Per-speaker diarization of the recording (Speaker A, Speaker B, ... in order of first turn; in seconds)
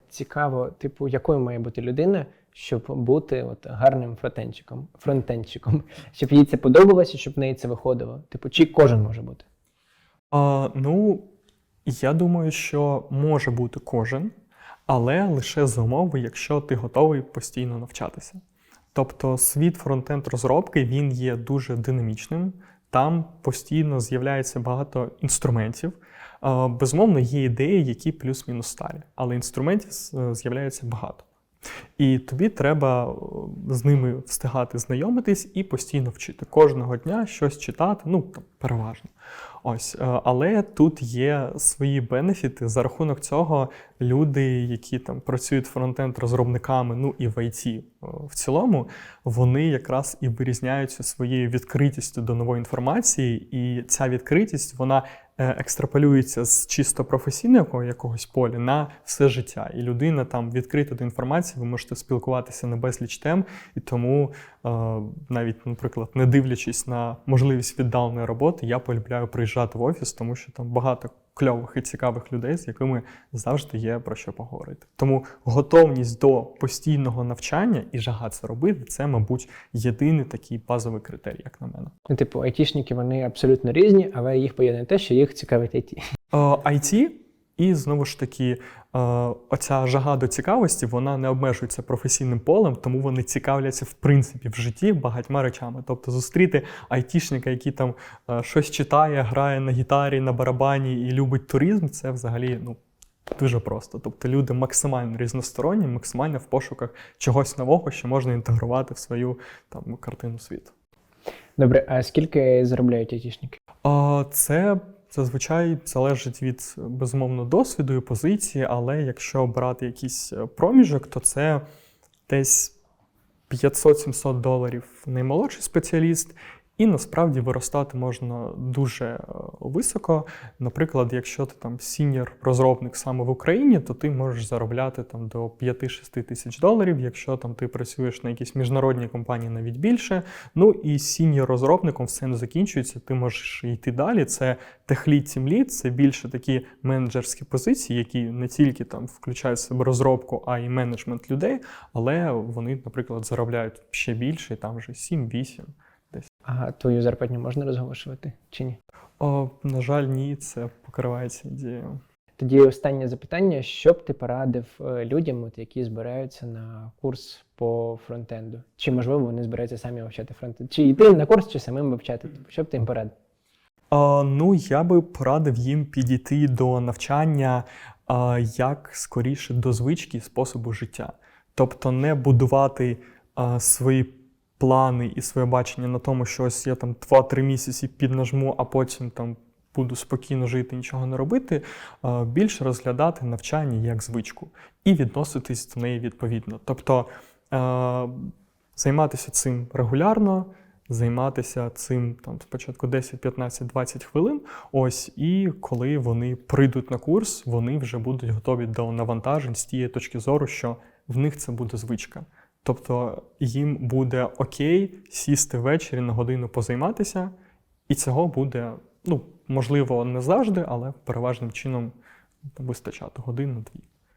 Speaker A: 0.1-9.4, 82.1-86.0, 111.6-113.6, 156.4-158.8, 162.4-173.1
Speaker B: 10.3-11.2, 11.8-14.3, 14.9-18.4, 18.9-31.2, 32.0-39.1, 39.6-81.9, 86.3-102.8, 103.4-110.7, 113.8-121.6, 122.3-122.8, 123.5-156.2, 159.2-162.0, 173.9-217.3, 217.9-221.9, 222.6-223.9